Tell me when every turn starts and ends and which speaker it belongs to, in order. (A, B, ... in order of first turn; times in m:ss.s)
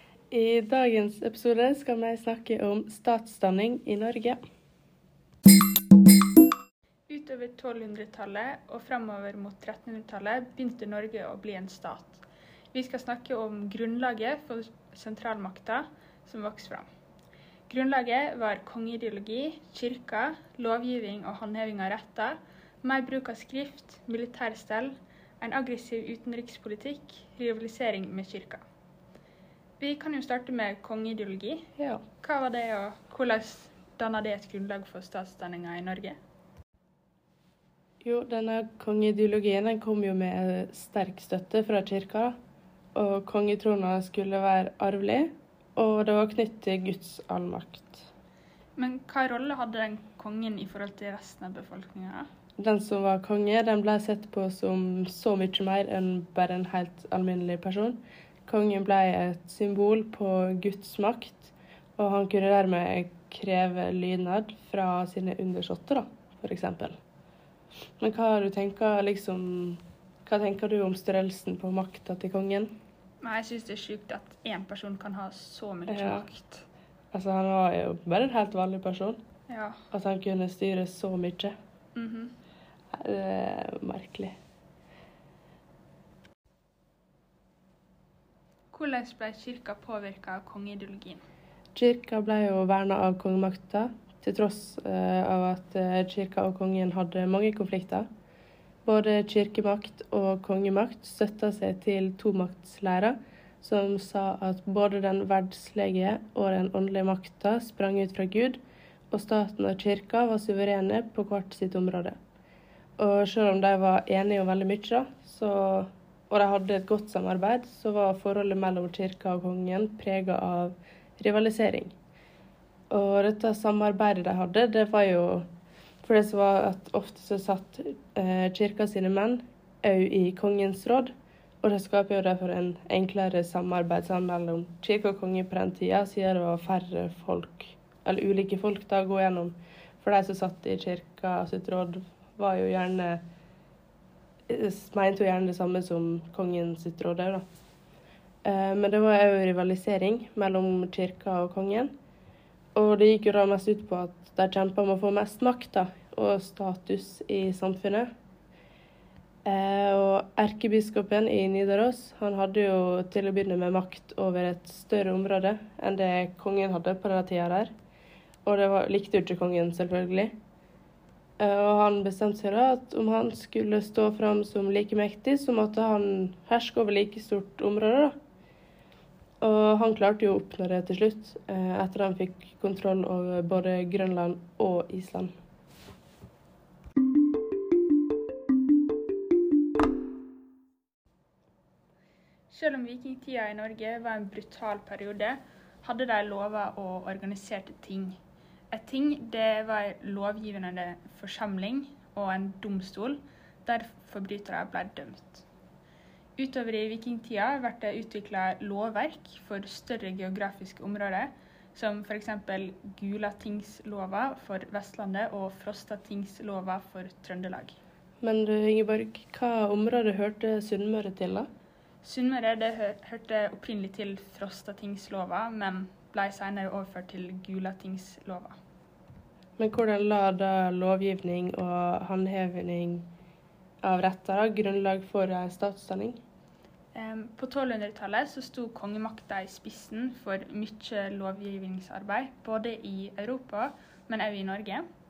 0:00.3-0:04.4 A
0:07.1-0:12.2 B
0:12.7-0:16.9 B
0:17.7-0:28.6 B
0:29.8-0:36.2 B
0:31.8-0:32.0 A
0:38.0-0:42.4 A
0:43.0-0:48.1 A
0:48.8-0:52.3 B
0:52.6-1:07.0 A
1:08.0-1:12.7 A
1:13.2-1:16.6 B
1:15.9-1:16.3 A
1:17.1-1:19.2 A
1:19.5-1:19.8 B
1:19.9-1:21.5 A
1:22.0-1:22.3 B
1:22.9-1:24.4 A
1:28.7-1:31.2 B
1:31.8-1:38.1 A
1:38.8-1:48.6 A
1:49.1-1:52.2 A
1:53.0-2:01.9 A
2:02.9-2:05.5 A
2:06.0-2:23.2 A
2:24.5-2:27.5 A
2:28.4-2:31.9 A
2:32.8-2:38.1 A
2:39.4-2:47.7 A
2:48.4-2:50.3 A
2:51.4-2:58.2 A
2:59.4-3:05.3 A
3:12.5-3:18.2 B
3:18.7-3:25.4 B
3:26.4-3:37.8 B
3:38.2-3:41.5 A
3:42.0-3:48.6 B
3:49.6-3:53.1 A
3:53.8-3:56.2 A
3:57.0-4:04.8 B